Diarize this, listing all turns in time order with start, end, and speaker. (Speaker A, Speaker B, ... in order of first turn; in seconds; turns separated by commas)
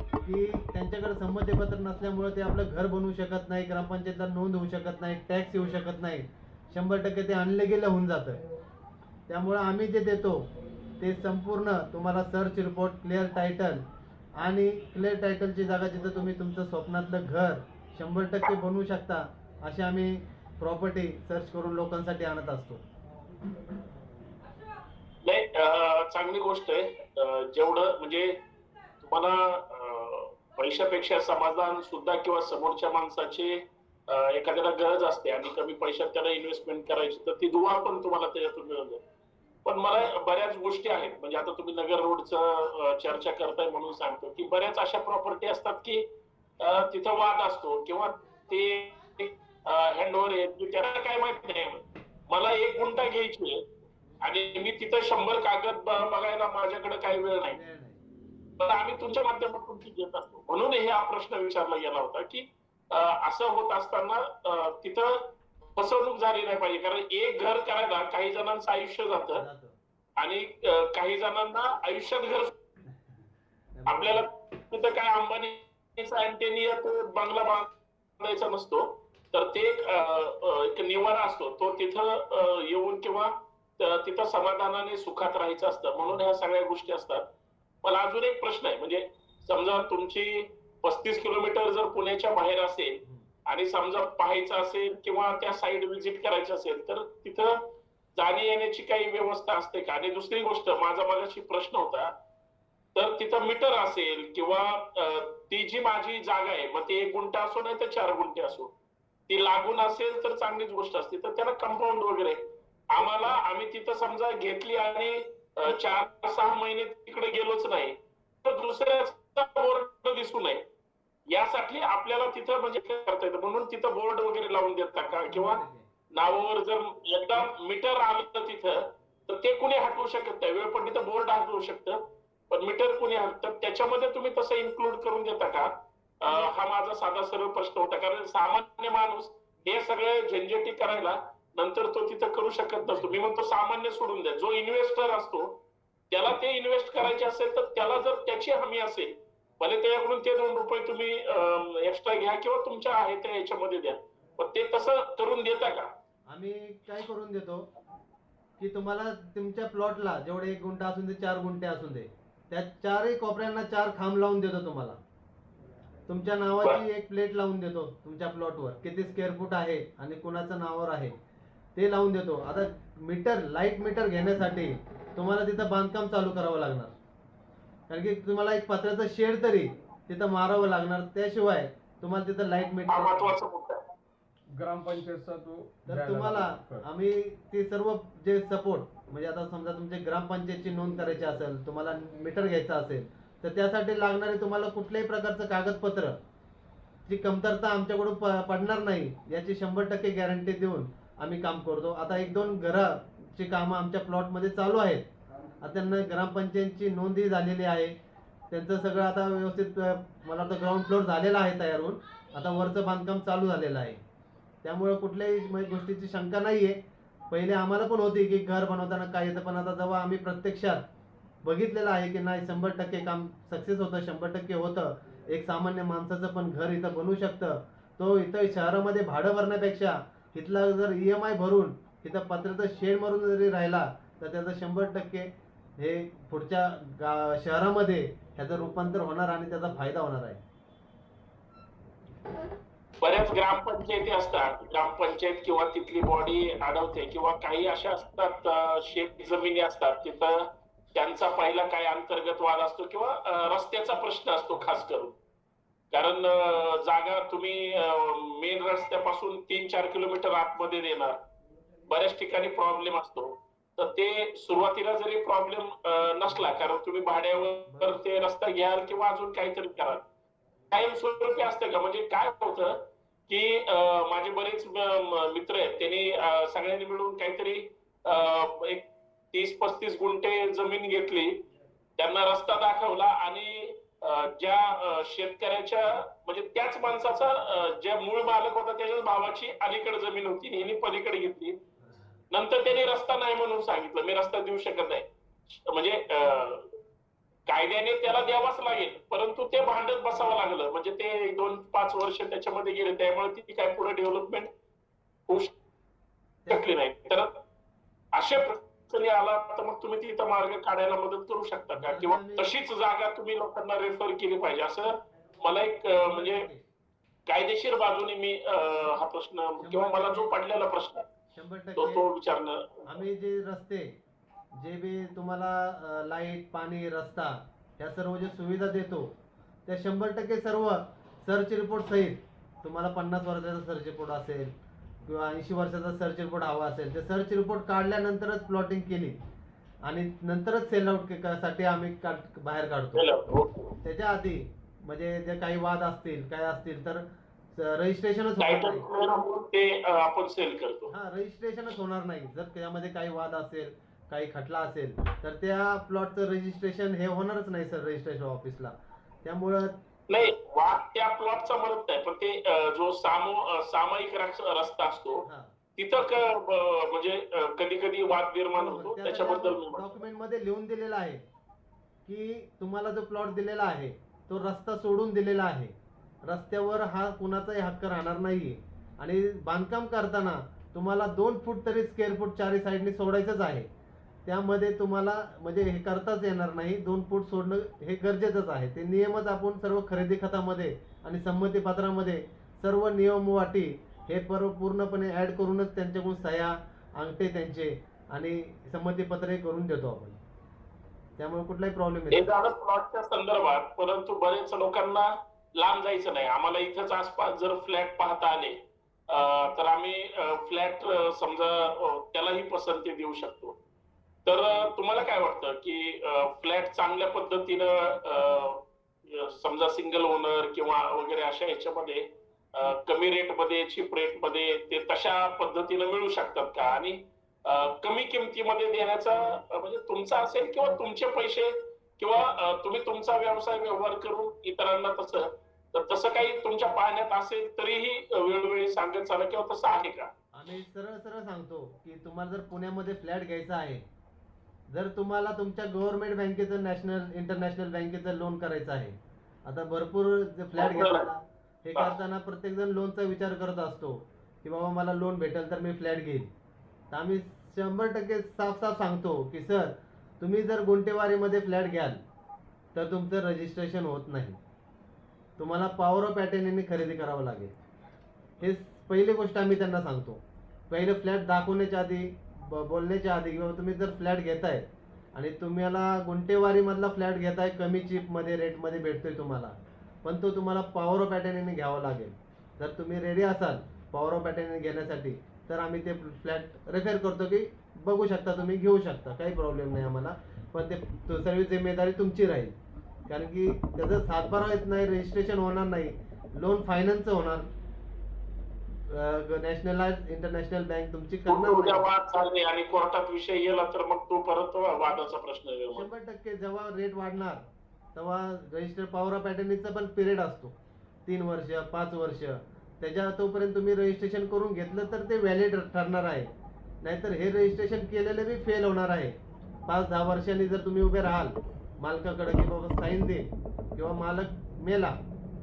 Speaker A: 0.2-8.4, Speaker A: 9.3-10.5, Speaker A: 11.0-13.8, Speaker A: 14.4-22.8, Speaker B: 25.2-28.4, Speaker B: 29.0-39.0, Speaker B: 39.6-46.1, Speaker B: 46.6-53.7, Speaker B: 54.2-57.6, Speaker A: 57.4-58.0, Speaker B: 58.6-69.5, Speaker A: 69.3-69.8, Speaker B: 70.2-72.5, Speaker A: 73.7-74.3, Speaker B: 73.9-87.3, Speaker B: 87.8-102.2, Speaker B: 103.0-108.7, Speaker B: 109.3-120.7, Speaker B: 121.3-155.9, Speaker A: 125.3-125.9, Speaker A: 156.3-157.7, Speaker A: 158.6-165.0, Speaker A: 166.1-171.2, Speaker A: 171.8-176.9, Speaker A: 177.9-183.3, Speaker B: 182.9-183.9, Speaker C: 184.6-186.9, Speaker A: 185.9-196.2, Speaker A: 197.1-205.1, Speaker A: 205.6-208.0, Speaker A: 208.5-214.0, Speaker A: 214.6-216.8, Speaker A: 217.3-220.8, Speaker A: 221.4-240.4, Speaker B: 243.0-255.2, Speaker B: 255.9-261.2, Speaker B: 261.9-270.1, Speaker B: 270.7-291.6, Speaker B: 292.3-296.7, Speaker B: 297.5-304.5, Speaker B: 305.3-305.5, Speaker B: 306.5-307.4, Speaker B: 308.1-316.5, Speaker A: 311.8-312.5, Speaker A: 315.9-316.6, Speaker B: 317.3-321.1, Speaker A: 319.6-320.4, Speaker A: 321.4-322.1, Speaker B: 321.8-323.0, Speaker A: 322.9-324.0, Speaker A: 324.6-329.1, Speaker A: 329.7-339.2, Speaker A: 339.9-343.1, Speaker B: 342.9-343.8, Speaker A: 343.8-348.9, Speaker B: 348.4-350.9, Speaker A: 350.9-359.8, Speaker B: 360.1-365.3, Speaker A: 365.2-365.6, Speaker B: 365.8-370.0, Speaker A: 368.6-371.3, Speaker A: 372.1-383.7, Speaker A: 384.2-400.2, Speaker A: 401.2-402.3, Speaker B: 402.1-413.6, Speaker B: 414.2-440.1, Speaker A: 440.3-443.9, Speaker A: 444.7-456.3, Speaker B: 450.6-451.1, Speaker A: 456.9-462.0, Speaker A: 462.7-464.4, Speaker A: 465.4-467.5, Speaker A: 468.4-492.6, Speaker A: 493.1-497.5, Speaker A: 498.9-501.9, Speaker B: 501.3-505.9, Speaker A: 505.7-516.3, Speaker A: 516.8-519.2, Speaker A: 519.7-525.0